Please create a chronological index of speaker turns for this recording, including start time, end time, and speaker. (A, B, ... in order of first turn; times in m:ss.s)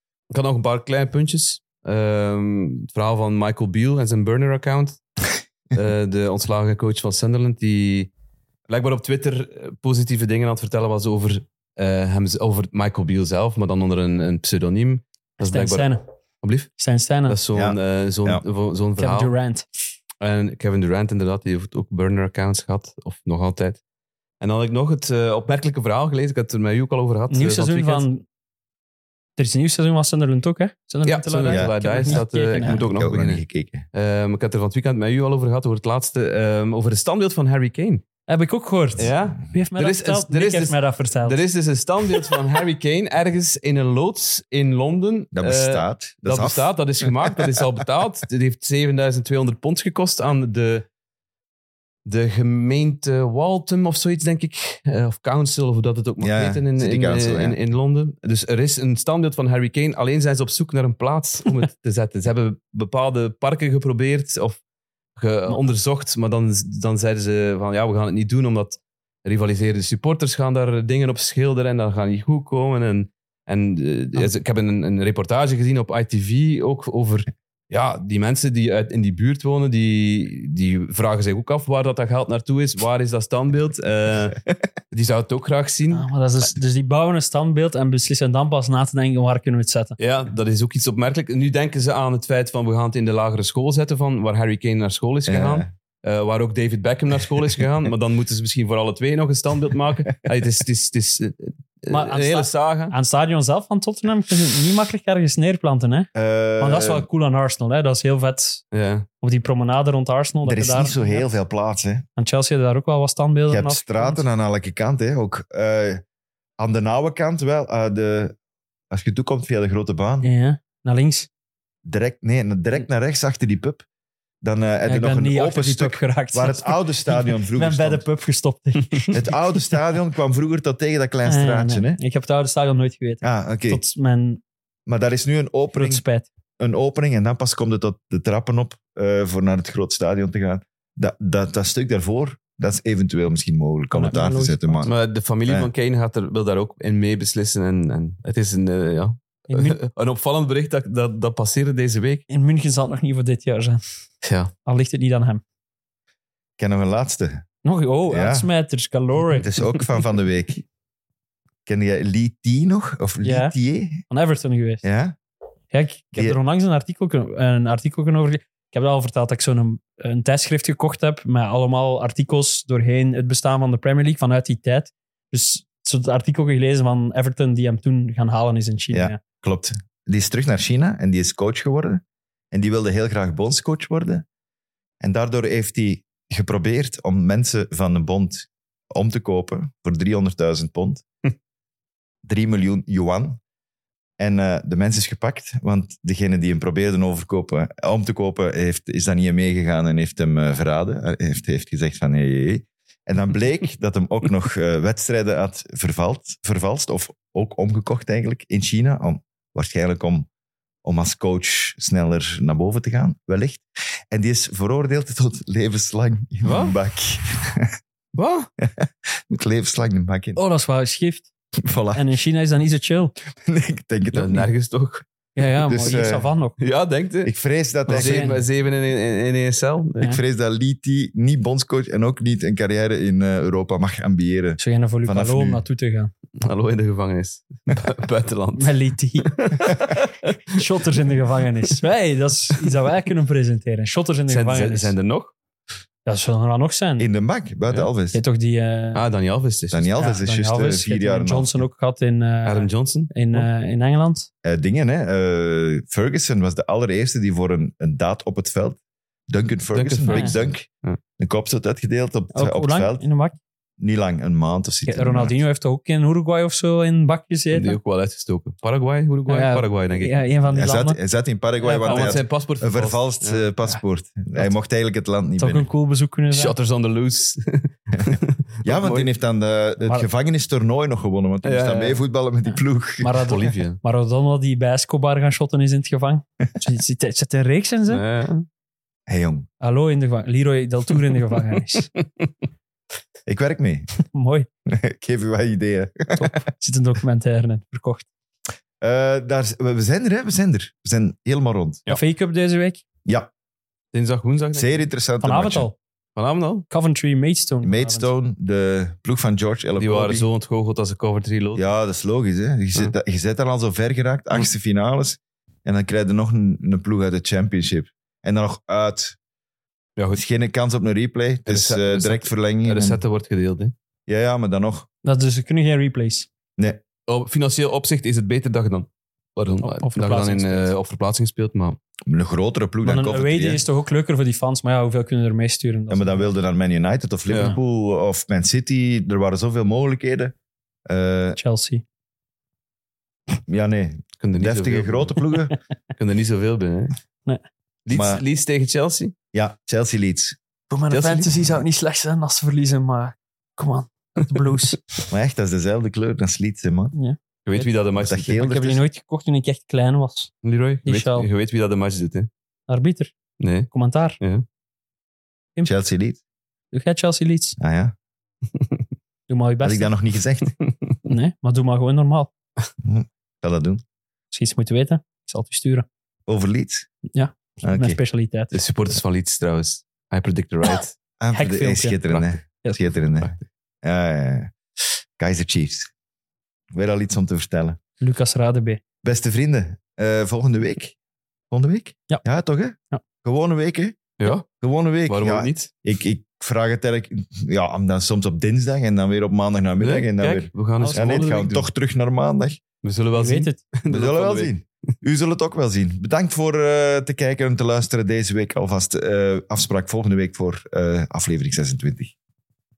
0:00.3-0:05.0 A
0:05.7-0:08.1 A
0:08.7-0:15.9 A
0:15.4-0:16.0 B
0:16.4-0:16.7 A
0:16.8-0:17.4 B
0:17.3-0:19.3 A
0:17.5-0:18.4 C
0:19.0-0:19.7 B
0:20.2-0:23.8 A
0:24.4-0:28.0 A
0:27.3-0:28.2 B
0:29.4-0:32.8 B
0:31.0-0:33.4 A
0:31.5-0:33.8 C
0:33.9-0:38.0 A
0:38.3-0:41.4 B
0:39.0-0:50.8 A
0:45.3-0:47.6 C
0:52.0-1:04.6 A
0:56.2-0:57.6 C
1:05.2-1:24.4 A
1:24.9-1:26.1 A
1:25.9-1:29.9 B
1:30.0-1:42.9 A
1:35.3-1:35.7 C
1:41.9-1:48.6 B
1:46.1-1:47.1 C
1:48.7-1:49.0 A
1:49.2-1:51.3 B
1:50.4-1:52.0 C
1:52.2-1:54.2 B
1:53.5-1:56.0 C
1:56.6-1:58.3 C
1:58.9-2:00.3 C
2:00.2-2:01.3 B
2:01.8-2:03.8 C
2:04.4-2:08.0 C
2:04.8-2:09.2 B
2:09.1-2:12.0 C
2:11.2-2:14.4 B
2:13.2-2:13.8 C
2:14.8-2:16.0 C
2:15.7-2:16.3 B
2:16.6-2:24.9 C
2:23.9-2:24.9 B
2:24.8-2:32.2 A
2:29.5-2:29.8 B
2:32.3-2:33.8 B
2:34.2-2:34.5 A
2:34.6-2:35.4 B
2:36.6-2:37.4 C
2:37.6-2:39.5 B
2:38.1-2:38.4 C
2:39.3-2:40.6 C
2:41.6-2:44.0 C
2:43.2-2:43.5 B
2:44.1-2:44.8 B
2:44.8-2:45.1 C
2:45.7-2:59.2 B
2:58.9-3:04.2 C
3:05.0-3:11.0 C
3:12.2-3:13.4 C
3:14.2-3:30.3 C
3:30.8-3:37.7 C
3:36.4-3:36.8 A
3:38.1-3:38.5 A
3:38.6-3:40.4 C
3:40.4-3:41.3 B
3:41.6-3:42.0 C
3:41.9-3:43.1 B
3:43.4-3:44.5 C
3:44.1-3:45.0 A
3:45.4-3:46.6 B
3:45.6-3:46.3 C
3:46.6-3:47.3 A
3:47.2-3:48.4 C
3:47.9-3:50.2 A
3:47.9-3:48.4 B
3:50.0-3:55.6 C
3:54.6-3:56.1 B
3:56.4-4:00.6 A
3:58.6-3:59.7 B
4:00.5-4:04.9 B
4:04.3-4:05.3 A
4:06.0-4:07.1 B
4:07.0-4:08.2 C
4:08.1-4:09.0 B
4:08.9-4:09.9 A
4:09.7-4:11.6 C
4:10.0-4:14.3 B
4:12.4-4:13.5 A
4:14.4-4:20.7 C
4:19.7-4:21.0 A
4:20.0-4:20.3 B
4:21.2-4:23.0 C
4:22.3-4:23.4 B
4:23.8-4:25.4 C
4:24.9-4:27.8 B
4:27.5-4:30.3 A
4:29.3-4:31.0 B
4:30.5-4:35.7 C
4:31.6-4:32.2 B
4:31.8-4:33.5 A
4:35.4-4:36.6 B
4:36.3-4:39.1 A
4:38.6-4:43.5 C
4:39.8-4:40.1 B
4:41.4-4:42.0 A
4:43.0-4:48.0 B
4:43.3-4:43.8 A
4:47.9-4:48.4 A
4:49.1-4:49.5 C
4:49.6-4:51.9 B
4:53.3-4:53.9 C
4:54.1-4:54.5 B
4:54.7-4:56.4 C
4:56.2-4:58.0 B
4:58.8-5:01.8 C
5:01.9-5:02.8 B
5:03.0-5:03.3 C
5:03.9-5:04.9 A
5:04.5-5:05.7 C
5:05.2-5:05.8 B
5:06.2-5:06.6 A
5:06.7-5:08.1 B
5:07.6-5:10.2 C
5:09.8-5:11.6 A
5:11.5-5:19.2 C
5:20.0-5:20.2 A
5:20.1-5:23.0 C
5:21.5-5:23.7 A
5:24.1-5:24.9 C
5:25.0-5:26.3 B
5:27.1-5:31.8 A
5:29.6-5:30.7 B
5:32.1-5:33.6 C
5:32.8-5:36.3 B
5:35.9-5:40.3 C
5:37.3-5:37.6 A
5:40.9-5:41.4 C
5:41.4-5:41.8 B
5:43.5-5:45.5 C
5:44.2-5:45.2 A
5:46.0-5:46.9 A
5:47.8-5:49.1 A
5:47.9-5:48.2 C
5:49.3-5:50.4 C
5:50.7-5:54.8 B
5:50.9-5:51.4 A
5:55.1-5:56.9 C
5:56.9-5:57.7 B
5:57.4-5:58.4 A
5:58.0-5:58.8 C
5:58.3-6:00.3 B
6:00.4-6:02.3 A
6:00.8-6:01.3 B
6:02.7-6:03.1 B
6:03.4-6:03.7 A
6:03.7-6:04.2 B
6:05.6-6:06.2 C
6:06.7-6:07.6 B
6:07.6-6:07.9 C
6:09.3-6:09.9 B
6:09.6-6:10.5 C
6:11.1-6:12.3 B
6:12.8-6:13.8 C
6:14.3-6:15.8 B
6:16.3-6:16.9 C
6:17.1-6:18.6 B
6:17.6-6:18.0 C
6:18.5-6:20.9 A
6:21.2-6:24.5 C
6:21.3-6:22.0 B
6:22.1-6:22.3 A
6:25.2-6:25.9 C
6:26.7-6:27.8 C
6:28.0-6:28.8 B
6:29.0-6:31.0 C
6:31.5-6:42.6 C
6:34.2-6:34.4 A
6:35.1-6:35.7 A
6:39.8-6:41.6 A
6:40.8-6:41.5 B
6:42.8-6:44.5 A
6:43.2-6:43.6 B
6:43.9-6:52.1 C